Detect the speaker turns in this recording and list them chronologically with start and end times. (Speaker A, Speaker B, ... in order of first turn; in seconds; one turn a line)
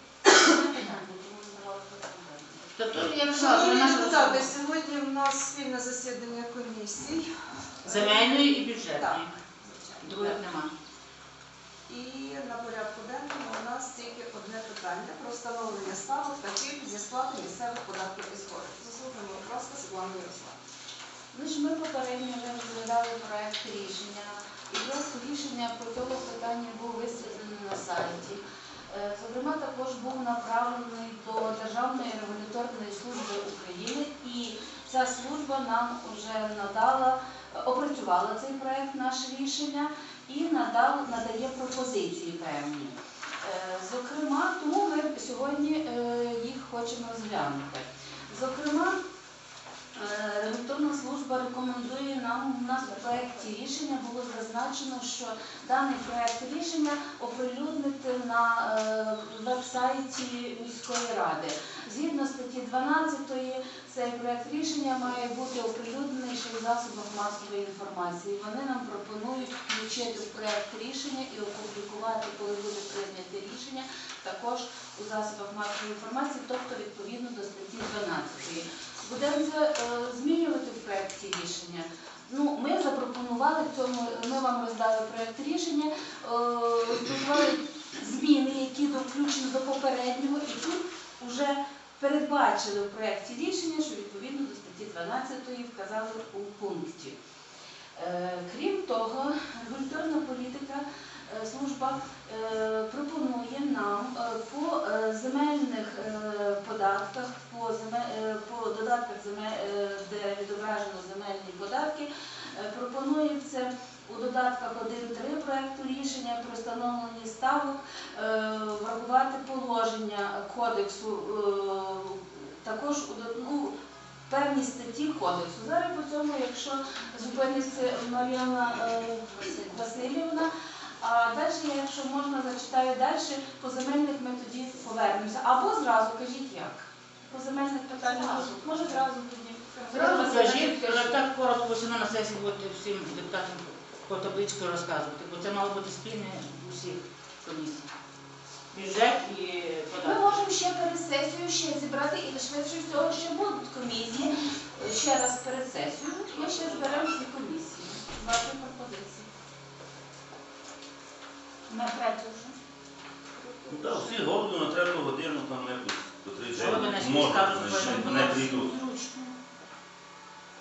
Speaker A: 0.4-2.6
Speaker B: 2.7-4.6
Speaker C: 2.9-3.2
Speaker D: 3.3-7.3
Speaker D: 7.8-10.4
Speaker B: 7.8-9.3
Speaker B: 10.0-10.7
Speaker D: 11.9-20.6
Speaker A: 21.3-49.0
Speaker A: 49.9-97.2
Speaker A: 97.9-123.8
Speaker A: 124.3-130.5
Speaker A: 131.0-141.1
Speaker D: 139.8-140.6
Speaker B: 139.9-147.9
Speaker B: 148.7-150.4
Speaker A: 150.0-159.3
Speaker A: 161.7-162.5
Speaker D: 163.3-164.3
Speaker C: 163.7-168.8
Speaker B: 166.5-169.3